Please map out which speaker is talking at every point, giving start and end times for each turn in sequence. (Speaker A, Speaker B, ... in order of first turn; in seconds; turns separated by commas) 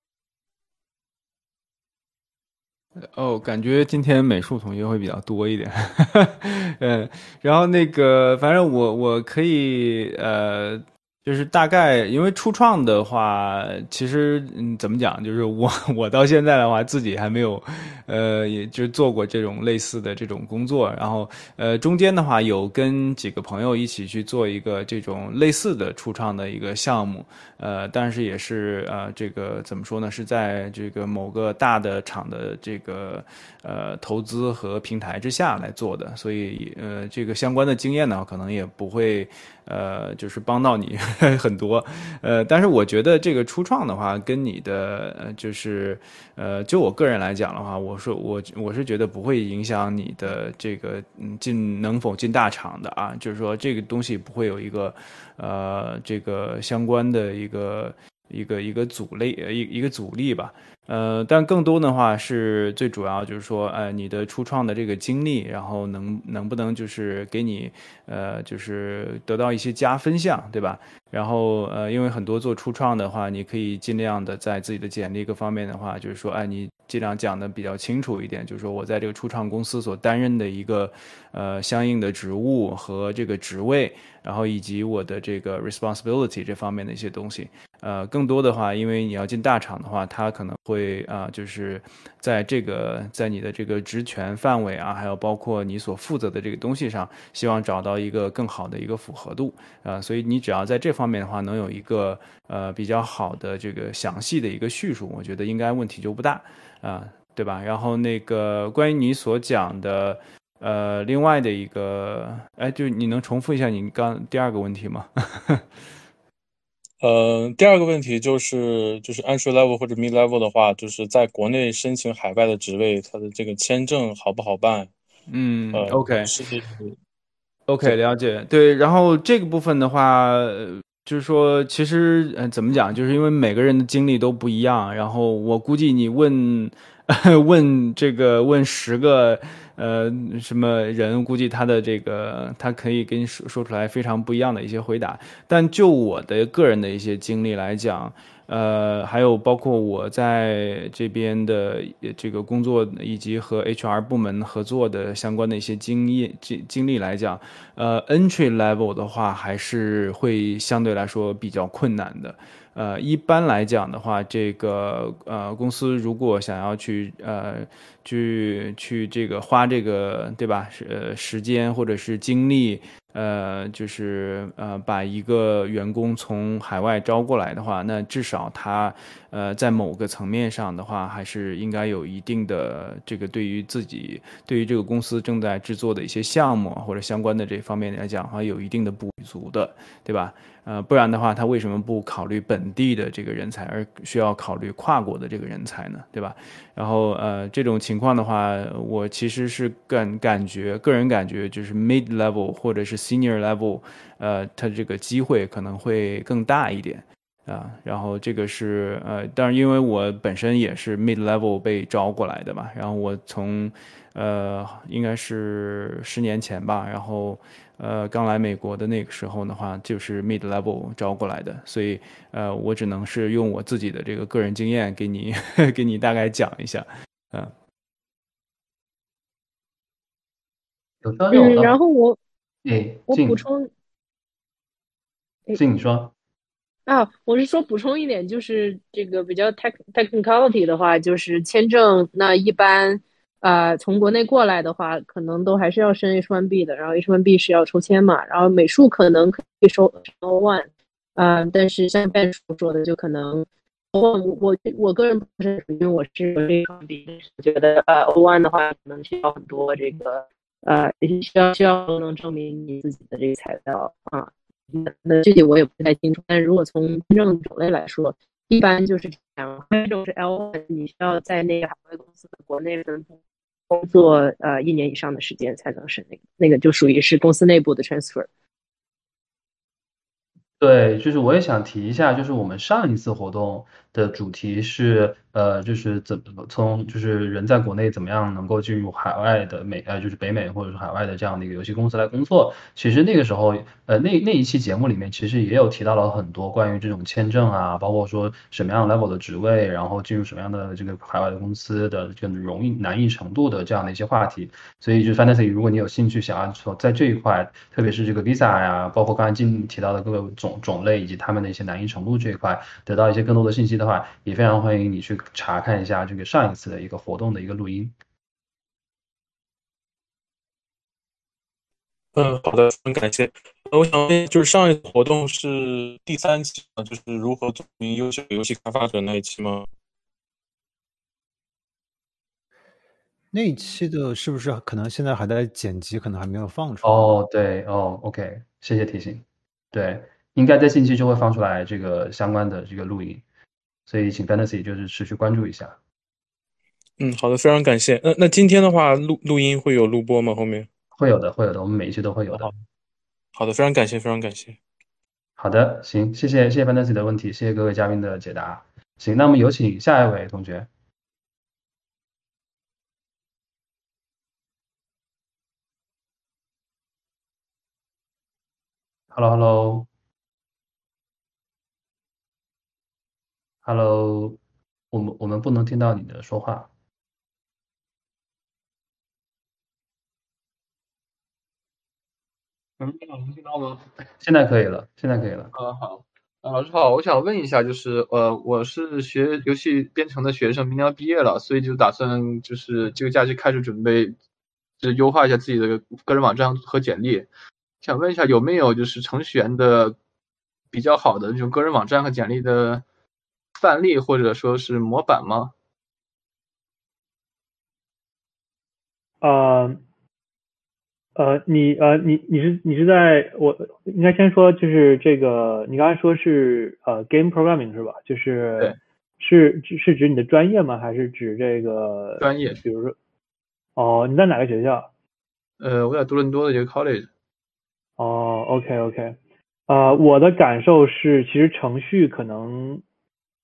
Speaker A: 3.0-115.7, Speaker B: 117.0-124.9, Speaker A: 125.3-126.3, Speaker B: 125.7-127.0, Speaker A: 127.7-227.5, Speaker C: 231.0-231.8, Speaker D: 231.3-232.2, Speaker C: 232.7-233.4, Speaker D: 233.1-233.7, Speaker C: 235.5-236.1, Speaker D: 236.9-273.2, Speaker D: 273.7-278.3, Speaker C: 280.6-317.9, Speaker B: 322.1-329.7, Speaker E: 333.3-337.2, Speaker C: 336.8-343.2, Speaker C: 343.9-345.8, Speaker B: 347.0-350.7, Speaker C: 351.0-352.5, Speaker B: 353.4-354.6, Speaker C: 355.4-360.7, Speaker C: 369.1-369.9, Speaker C: 373.6-374.4, Speaker C: 374.9-376.7, Speaker F: 382.8-383.9, Speaker C: 384.2-385.5, Speaker F: 385.5-394.2, Speaker F: 394.8-397.3, Speaker F: 397.8-400.0, Speaker F: 400.7-402.8, Speaker F: 403.6-405.5, Speaker G: 409.2-409.8, Speaker G: 411.2-423.0, Speaker F: 422.2-422.6, Speaker G: 423.8-424.9, Speaker F: 425.6-427.1, Speaker G: 428.0-429.2, Speaker G: 429.7-432.8